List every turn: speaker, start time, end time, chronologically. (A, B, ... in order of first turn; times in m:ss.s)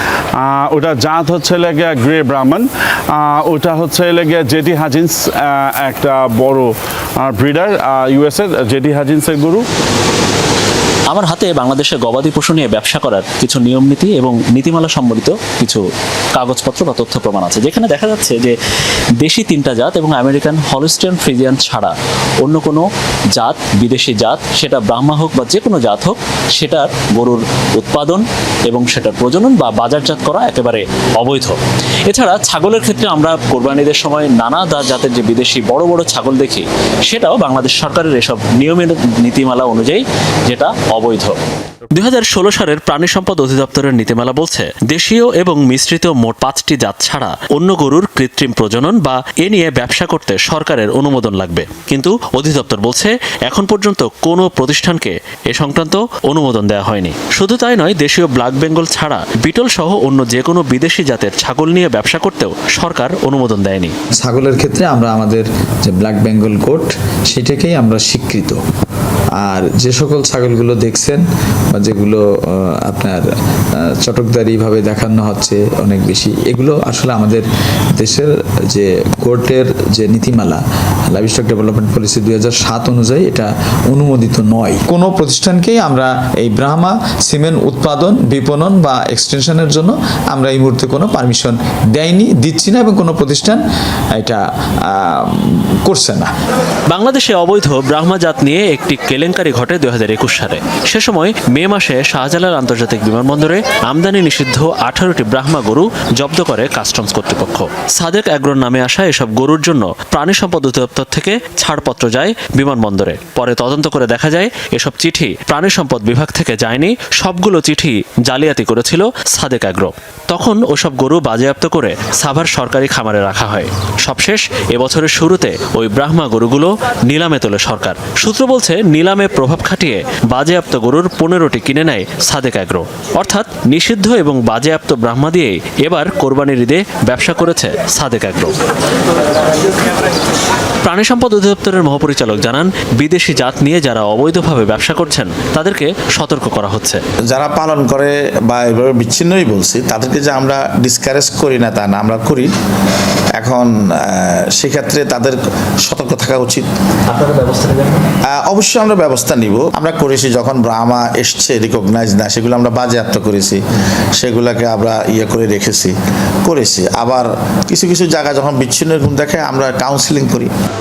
0:00.3-0:09.6 A
0:11.1-0:15.8 B
0:16.3-0:18.6 B
0:19.2-0:41.4 B
0:41.9-1:03.9 B
1:04.2-1:08.6 C
1:09.4-1:33.6 C
1:34.2-1:36.3 C
1:36.9-2:18.6 B
2:20.8-2:27.0 B
2:27.3-2:32.5 D
2:33.4-2:36.6 D
2:37.1-2:38.1 B
2:38.3-2:43.6 D
2:44.2-2:50.5 D